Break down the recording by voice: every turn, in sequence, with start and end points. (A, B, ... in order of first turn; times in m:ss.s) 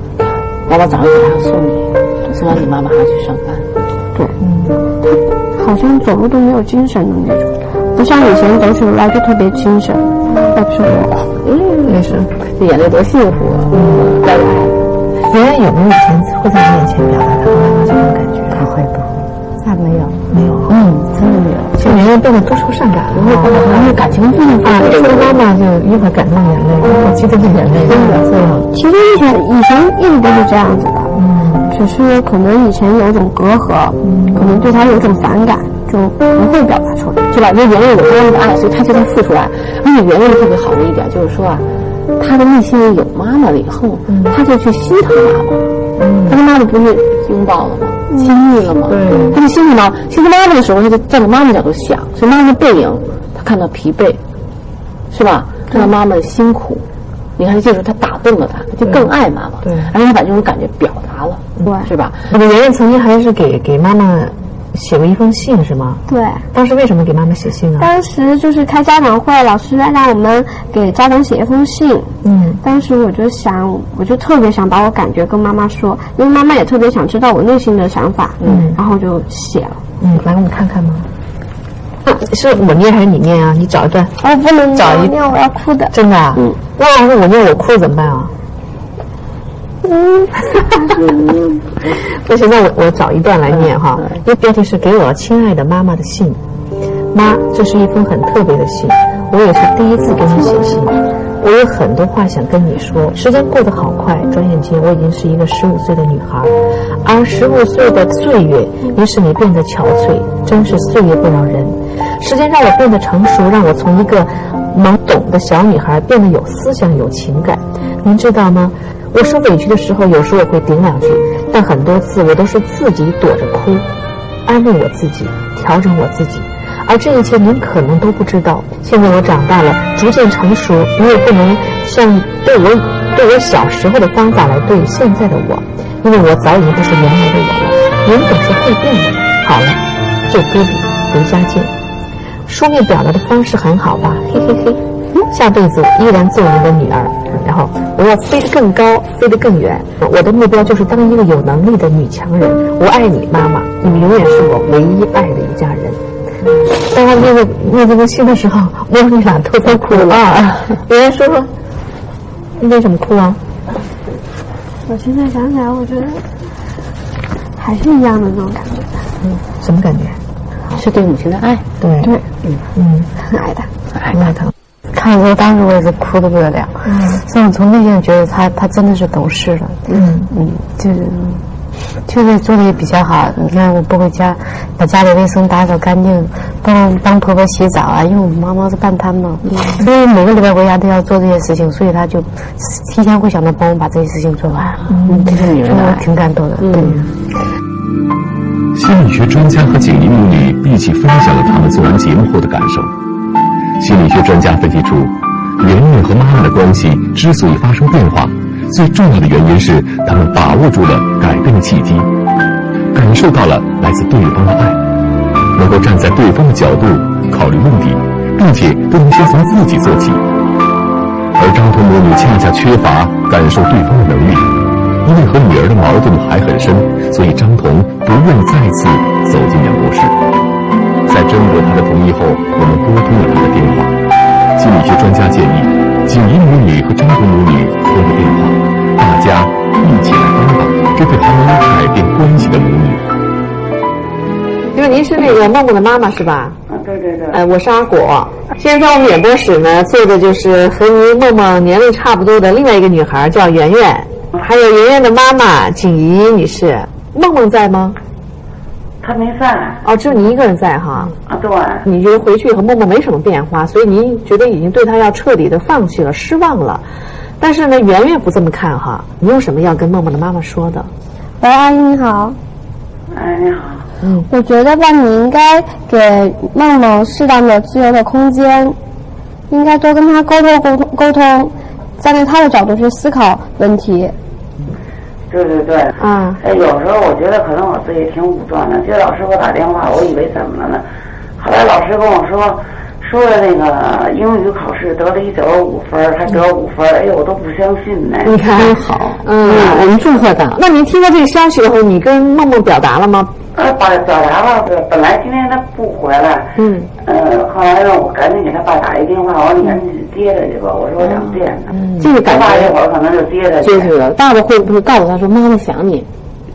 0:00.2-0:03.7 A
0:04.4-0:04.8 B
0:05.0-0:11.3 C
0:11.4-0:14.8 A
0:11.8-0:12.3 B
0:13.7-0:14.1 B
0:15.3-0:18.7 B
0:18.6-0:19.1 D
0:19.6-0:20.2 D
0:20.3-0:20.7 B
0:20.7-0:21.8 D
0:21.8-0:24.0 B
0:23.1-0:25.4 A
0:24.6-0:28.7 B
0:27.9-0:28.3 A
0:28.7-0:31.2 C
0:31.1-0:31.7 B
0:31.7-0:37.2 C
0:34.0-0:34.6 B
0:37.3-0:41.6 A
0:42.2-0:45.6 A
0:44.1-0:44.4 B
0:46.0-0:46.4 B
0:46.3-0:54.2 A
0:48.9-0:49.4 B
0:55.1-0:56.8 A
0:57.4-1:02.3 A
0:58.8-0:59.9 B
1:01.6-1:01.9 C
1:02.3-1:06.0 B
1:06.1-1:06.5 C
1:06.5-1:07.9 B
1:07.8-1:19.8 C
1:12.2-1:12.6 B
1:18.4-1:18.8 B
1:20.0-1:21.1 B
1:22.1-1:24.2 B
1:24.2-1:25.9 C
1:24.7-1:25.2 B
1:25.9-1:28.3 B
1:30.0-1:30.3 C
1:31.0-1:31.3 A
1:31.9-1:36.4 B
1:37.1-2:03.9 B
2:04.4-2:21.7 B
2:22.5-2:36.0 B
2:36.8-2:41.5 B
2:42.6-2:43.4 B
2:44.8-2:46.2 C
2:47.6-2:48.9 C
2:49.6-2:50.2 B
2:50.7-2:51.6 A
2:51.8-2:52.1 B
2:52.8-2:53.1 B
2:53.2-2:53.7 C
2:54.0-2:54.4 A
2:54.1-2:54.5 B
2:54.9-2:59.8 D
2:56.8-2:57.2 B
2:59.9-3:00.3 B
3:00.3-3:01.4 D
3:02.1-3:14.8 D
3:09.4-3:09.8 A
3:14.5-3:16.1 A
3:14.9-3:15.2 B
3:15.4-3:17.0 D
3:16.6-3:17.1 A
3:18.8-3:22.9 E
3:23.8-3:32.1 E
3:32.9-3:34.8 E
3:35.6-3:40.2 E
3:41.4-3:44.5 E
3:45.0-3:50.2 E
3:51.1-3:54.0 E
3:54.6-4:03.0 E
4:04.7-4:06.6 B
4:06.7-4:07.4 F
4:07.3-4:18.0 B
4:19.0-4:19.8 F
4:19.8-4:21.2 B
4:21.3-4:21.8 F
4:21.8-4:26.8 B
4:27.4-4:30.9 B
4:31.4-4:32.4 C
4:33.1-4:33.9 F
4:34.0-4:34.3 B
4:34.3-4:38.8 C
4:39.5-4:44.2 C
4:45.3-4:50.9 F
4:46.0-4:46.4 B
4:51.4-4:58.5 F
4:58.2-4:59.9 B
4:58.6-5:00.6 A
5:00.5-5:03.3 B
5:03.5-5:11.7 F
5:06.6-5:06.9 A
5:11.0-5:11.4 A
5:11.7-5:12.0 B
5:12.0-5:12.8 A
5:12.2-5:13.9 F
5:13.6-5:16.1 A